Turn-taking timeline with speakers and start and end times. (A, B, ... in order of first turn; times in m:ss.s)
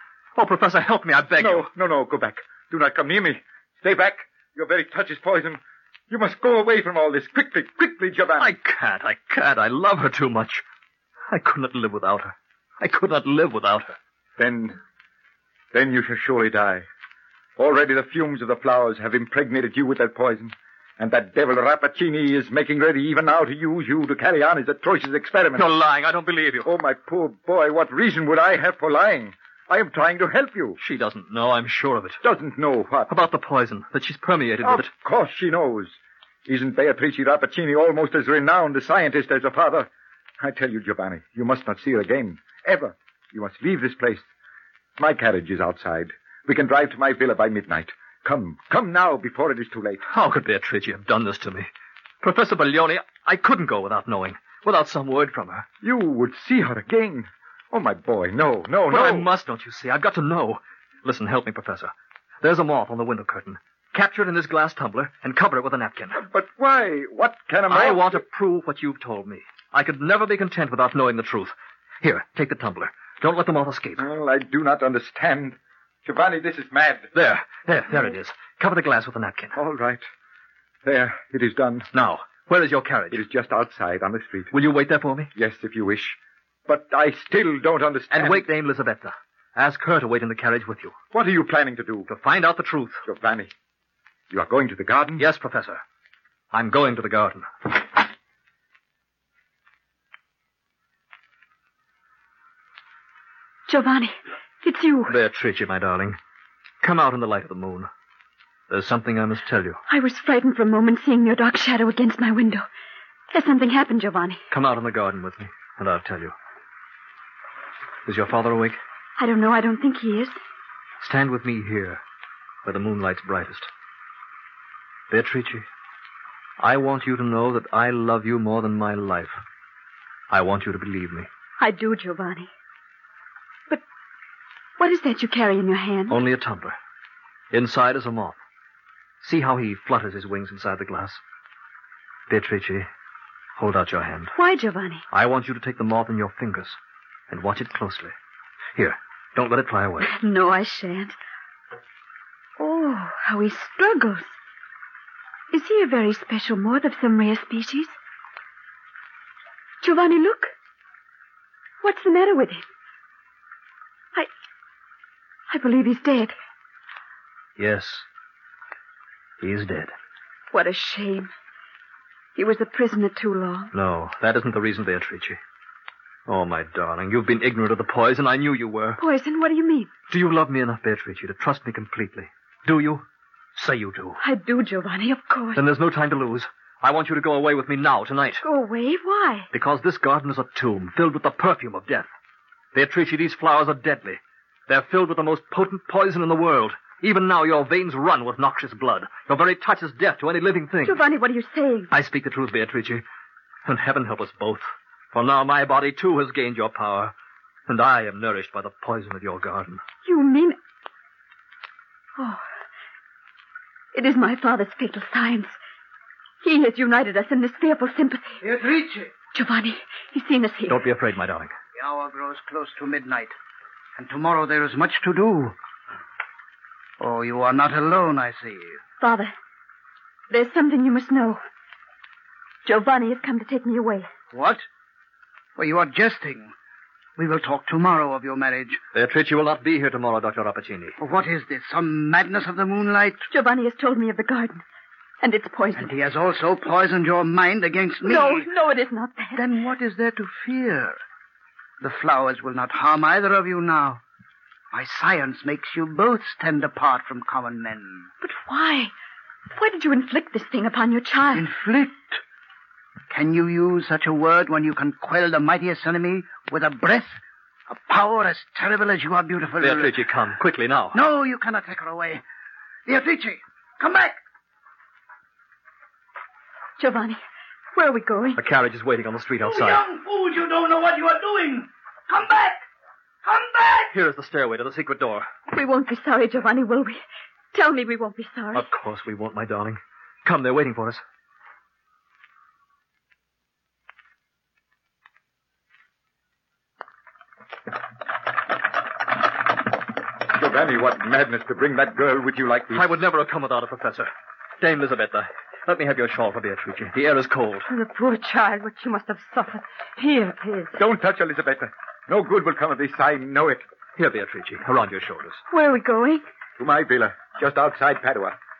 0:00.4-0:01.7 A
0:01.4-0:08.5 B
0:08.4-0:10.6 A
0:11.3-0:14.0 A
0:14.4-0:14.8 B
0:15.7-0:16.8 B
0:17.6-0:25.7 B
0:25.6-0:26.7 A
0:26.6-0:30.8 B
0:30.8-0:32.2 A
0:32.2-0:33.1 B
0:33.1-0:34.9 A
0:34.6-0:44.2 B
0:45.0-0:50.0 B
0:50.1-0:51.7 A
0:52.2-0:55.6 A
0:55.8-0:59.3 B
0:58.9-1:06.2 A
1:06.2-1:08.2 B
1:07.7-1:14.0 A
1:14.0-1:17.1 B
1:17.1-1:19.6 A
1:19.5-1:20.0 B
1:20.8-1:21.9 B
1:21.9-1:23.2 A
1:23.1-1:24.5 B
1:24.5-1:25.3 A
1:25.3-1:28.4 B
1:28.1-1:30.9 A
1:31.1-1:32.1 B
1:32.1-1:33.0 A
1:33.0-1:33.5 B
1:34.3-1:35.2 B
1:35.2-1:35.8 A
1:36.5-1:37.9 A
1:43.7-1:45.2 C
1:45.1-1:46.2 A
1:46.8-1:47.9 A
1:48.7-1:49.8 A
1:49.9-1:52.6 C
1:53.3-1:54.4 C
1:54.5-1:56.3 A
1:58.0-1:58.8 A
1:59.2-2:00.4 C
2:01.0-2:02.0 A
2:02.6-2:03.7 A
2:05.1-2:05.6 A
2:06.6-2:09.4 A
2:10.3-2:11.3 A
2:11.6-2:12.5 C
2:14.8-2:16.2 C
2:16.1-2:16.8 A
2:17.5-2:18.4 A
2:19.2-2:21.2 A
2:22.3-2:22.9 A
2:23.6-2:24.3 A
2:24.3-2:25.0 C
2:25.1-2:26.8 A
2:27.3-2:28.1 A
2:28.8-2:30.1 A
2:30.0-2:31.2 C
2:32.6-2:34.4 C
2:35.5-2:37.9 C
2:39.8-2:40.5 C
2:41.8-2:42.6 C
2:45.5-2:46.3 C
2:47.6-2:48.0 A
2:49.4-2:49.9 A
2:50.5-2:51.3 C
2:52.4-2:53.7 C
2:53.7-2:55.4 A
2:56.3-2:59.0 A
2:59.0-2:59.9 C
3:00.1-3:03.0 A
3:03.6-3:04.2 A
3:04.2-3:05.6 C
3:05.6-3:08.4 A
3:08.4-3:09.5 C
3:09.5-3:12.1 A
3:12.7-3:21.0 A
3:20.8-3:21.9 C
3:21.9-3:23.0 A
3:23.6-3:27.1 A
3:27.7-3:29.8 A
3:30.0-3:30.6 C
3:33.9-3:35.6 C
3:36.4-3:38.4 C
3:38.4-3:39.1 D
3:39.3-3:40.8 C
3:40.7-3:41.5 A
3:41.7-3:43.3 D
3:44.0-3:45.6 D
3:47.0-3:48.8 D
3:49.0-3:49.3 C
3:50.3-3:51.4 C
3:52.6-3:54.1 C
3:54.3-3:54.6 D
3:55.6-3:56.5 D
3:57.2-3:58.8 D
3:58.9-4:01.0 A
4:01.0-4:03.2 D
4:03.3-4:04.6 C
4:05.2-4:05.9 C
4:05.8-4:08.5 D
4:08.0-4:09.4 C
4:09.3-4:11.0 D
4:11.8-4:14.0 D
4:14.7-4:18.1 D
4:18.2-4:18.9 C
4:19.5-4:21.5 C
4:21.3-4:22.2 D
4:23.1-4:30.0 D
4:29.6-4:31.0 A
4:30.9-4:32.2 D
4:32.9-4:34.2 D
4:36.8-4:37.2 C
4:37.7-4:38.4 C
4:38.4-4:39.8 A
4:39.4-4:42.6 D
4:43.2-4:43.9 D
4:43.9-4:45.3 A
4:45.5-4:47.0 C
4:47.5-4:48.6 C
4:48.5-4:51.0 A
5:00.3-5:02.9 B
5:02.7-5:04.1 A
5:04.6-5:07.7 A
5:07.7-5:10.8 E
5:10.8-5:13.6 B
5:14.0-5:15.4 A
5:15.5-5:16.2 C
5:16.6-5:18.4 B